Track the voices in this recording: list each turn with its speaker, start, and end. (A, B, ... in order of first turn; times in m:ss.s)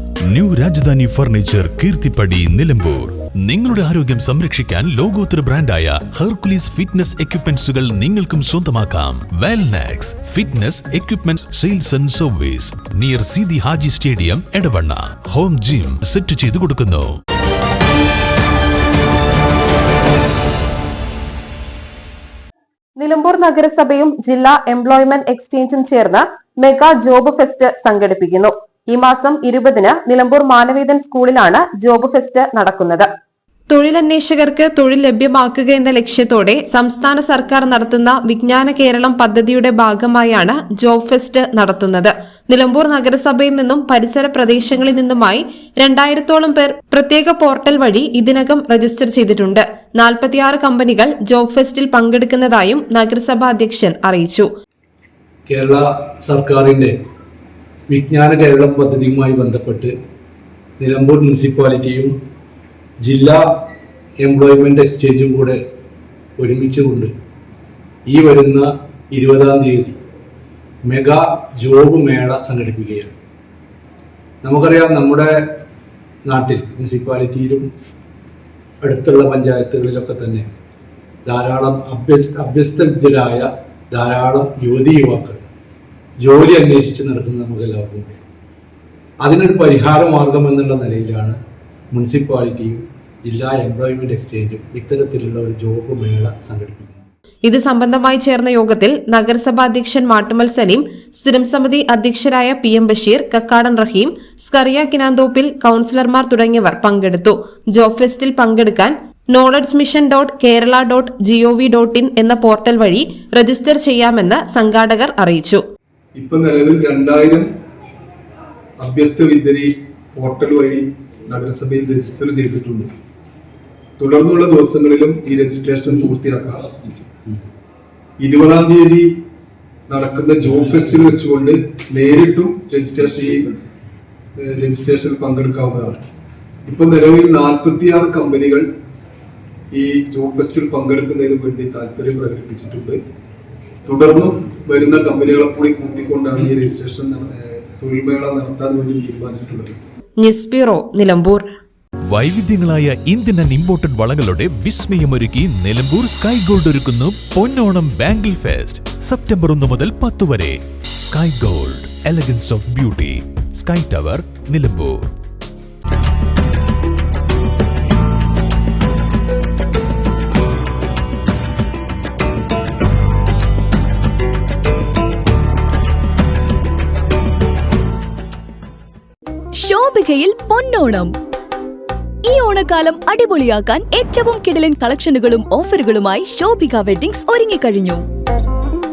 0:00.3-0:17.1 A
0:23.0-0:33.0 B
0:33.7-0:54.5 C
0:55.5-0:56.9 D
0:57.9-0:59.9 D
1:00.8-1:02.1 D
1:03.0-1:03.4 D
1:04.2-1:05.6 D
1:06.4-1:07.1 D
1:08.1-1:10.0 D
1:10.8-1:13.1 D
1:14.4-1:15.5 D
1:16.2-1:17.7 D
1:18.8-1:20.5 D
1:21.2-1:25.4 D
1:26.2-1:28.2 D
1:29.2-1:31.4 D
1:31.9-1:37.0 D
1:37.4-1:55.6 C
1:56.1-1:57.5 E
1:58.8-2:02.9 E
2:04.0-2:07.0 E
2:08.2-2:09.1 E
2:09.9-2:13.6 E
2:14.4-2:16.0 E
2:16.6-2:18.7 E
2:19.7-2:23.0 E
2:23.8-2:29.8 E
2:30.2-2:31.4 C
2:32.1-2:45.1 A
2:59.6-3:01.1 F
3:02.2-3:08.0 F